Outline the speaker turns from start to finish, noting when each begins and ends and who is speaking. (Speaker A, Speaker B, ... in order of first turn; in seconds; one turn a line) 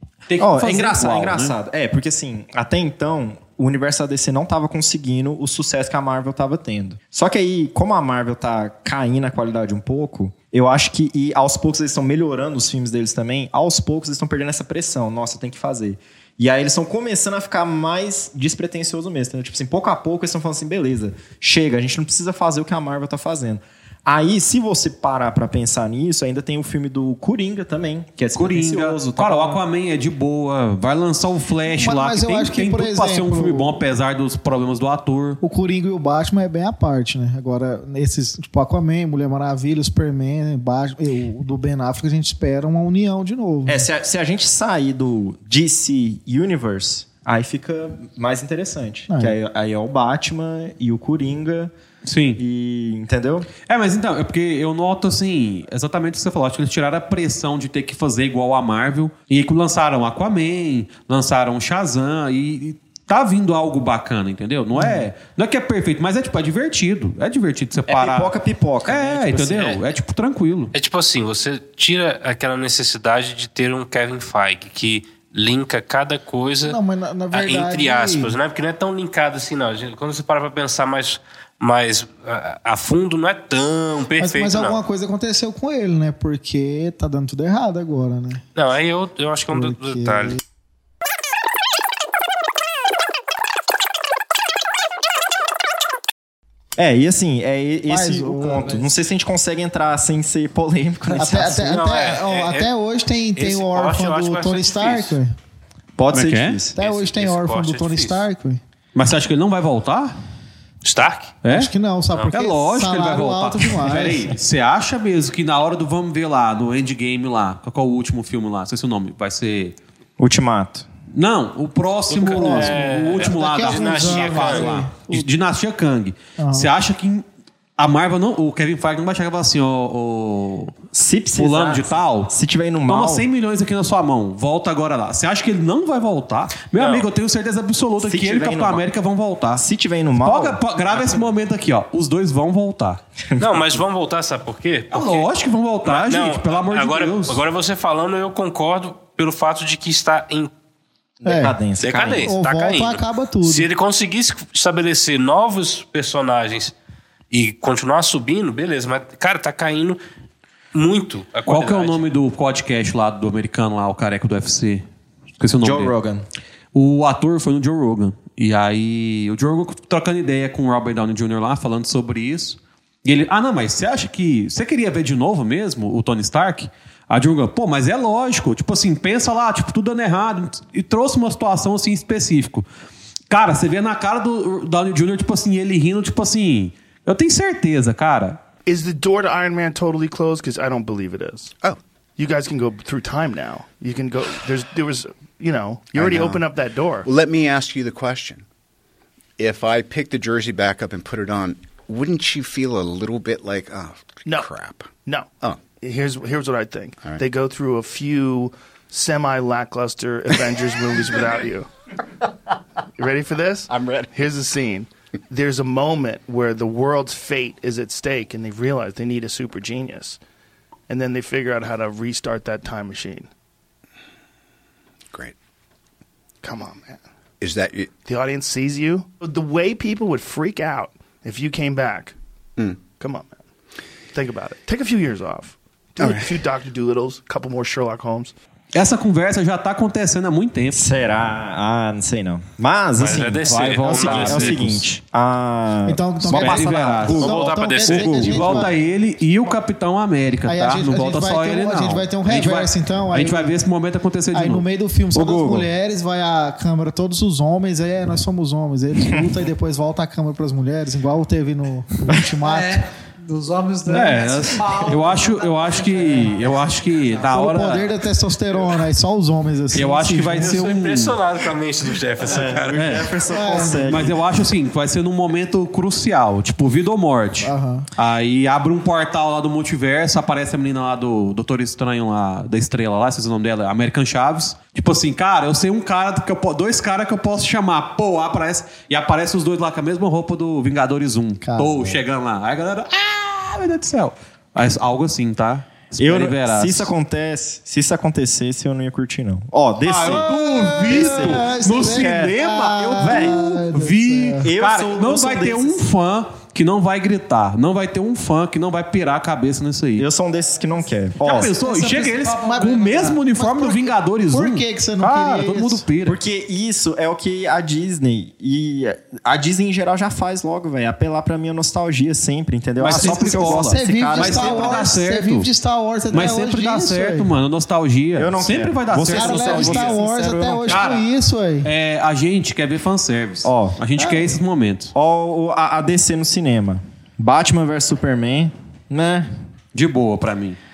Speaker A: 0.3-1.5
Speaker B: 0.4-29.6
Speaker A: 28.3-35.4
Speaker C: 31.7-33.7
Speaker C: 35.4-43.9
Speaker B: 43.7-51.7
Speaker C: 49.1-49.4
Speaker A: 52.0-52.4
Speaker B: 52.4-53.5
Speaker A: 53.7-68.3
Speaker C: 64.8-65.0
Speaker B: 67.9-69.8
Speaker A: 68.9-70.7
Speaker D: 70.7-76.8
Speaker C: 76.7-78.3
Speaker D: 77.3-84.8
Speaker C: 84.2-88.4
Speaker D: 88.5-90.4
Speaker C: 89.5-90.4
Speaker B: 96.8-101.8
Speaker C: 97.9-98.9
Speaker C: 101.2-105.3
Speaker D: 101.5-102.7
Speaker D: 103.3-105.2
Speaker B: 106.0-106.8
Speaker A: 106.1-106.6
Speaker D: 106.8-108.2
Speaker C: 106.8-108.6
Speaker A: 108.9-110.2
Speaker D: 110.8-111.4
Speaker A: 111.4-111.7
Speaker C: 111.5-114.3
Speaker A: 112.3-119.7
Speaker B: 120.2-120.8
Speaker A: 121.1-127.2
Speaker D: 122.1-124.8
Speaker C: 122.4-125.2
Speaker B: 122.5-122.9
Speaker C: 126.4-126.7
Speaker A: 127.8-130.7
Speaker B: 130.9-133.2
Speaker A: 131.3-132.3
Speaker A: 132.9-139.6
Speaker D: 136.8-137.0
Speaker B: 138.0-138.8
Speaker B: 139.6-141.2
Speaker A: 140.2-143.0
Speaker B: 143.3-143.8
Speaker D: 143.4-145.2
Speaker A: 144.9-147.4
Speaker D: 145.8-150.5
Speaker B: 151.2-152.3
Speaker C: 151.2-151.6
Speaker D: 151.8-156.7
Speaker C: 152.2-153.7
Speaker D: 157.3-160.0
Speaker D: 160.7-162.0
Speaker A: 161.5-164.8
Speaker A: 165.4-165.9
Speaker B: 165.6-166.2
Speaker A: 166.7-182.7
Speaker A: 183.3-188.4
Speaker E: 188.7-191.5
Speaker E: 192.2-197.1
Speaker F: 195.9-196.5
Speaker F: 197.0-198.4
Speaker F: 199.4-204.9
Speaker E: 205.0-211.7
Speaker E: 213.0-220.2
Speaker F: 213.7-214.0
Speaker E: 220.9-223.3
Speaker E: 226.4-227.0
Speaker F: 227.4-227.9
Speaker E: 228.0-232.2
Speaker E: 232.9-233.4
Speaker E: 234.1-238.3
Speaker F: 236.0-236.4
Speaker A: 238.7-240.8
Speaker B: 240.7-248.7
Speaker D: 243.0-244.6
Speaker A: 243.4-244.8
Speaker C: 245.9-248.7
Speaker A: 246.3-247.3
Speaker D: 247.2-248.3
Speaker A: 248.1-254.7
Speaker C: 250.5-253.6
Speaker C: 254.3-262.8
Speaker B: 255.1-255.7
Speaker G: 262.4-266.9
Speaker A: 263.9-267.9
Speaker C: 267.2-270.7
Speaker A: 269.7-271.2
Speaker D: 270.4-273.0
Speaker B: 272.2-274.2
Speaker A: 272.7-273.1
Speaker C: 273.3-273.9
Speaker A: 273.9-296.9
Speaker C: 277.4-277.9
Speaker C: 291.4-292.0
Speaker B: 296.0-302.4
Speaker A: 299.8-310.1
Speaker C: 300.1-304.4
Speaker B: 303.0-303.4
Speaker B: 304.4-305.9
Speaker B: 310.0-311.5
Speaker A: 311.2-316.2
Speaker G: 311.6-313.2
Speaker C: 312.4-315.8
Speaker B: 316.0-324.9
Speaker A: 322.8-325.5
Speaker C: 322.9-327.3
Speaker A: 326.1-330.0
Speaker B: 328.1-330.8
Speaker C: 329.1-331.7
Speaker A: 330.7-331.1
Speaker A: 331.6-334.9
Speaker B: 333.4-333.8
Speaker C: 334.0-334.4
Speaker B: 334.9-339.3
Speaker A: 339.7-340.6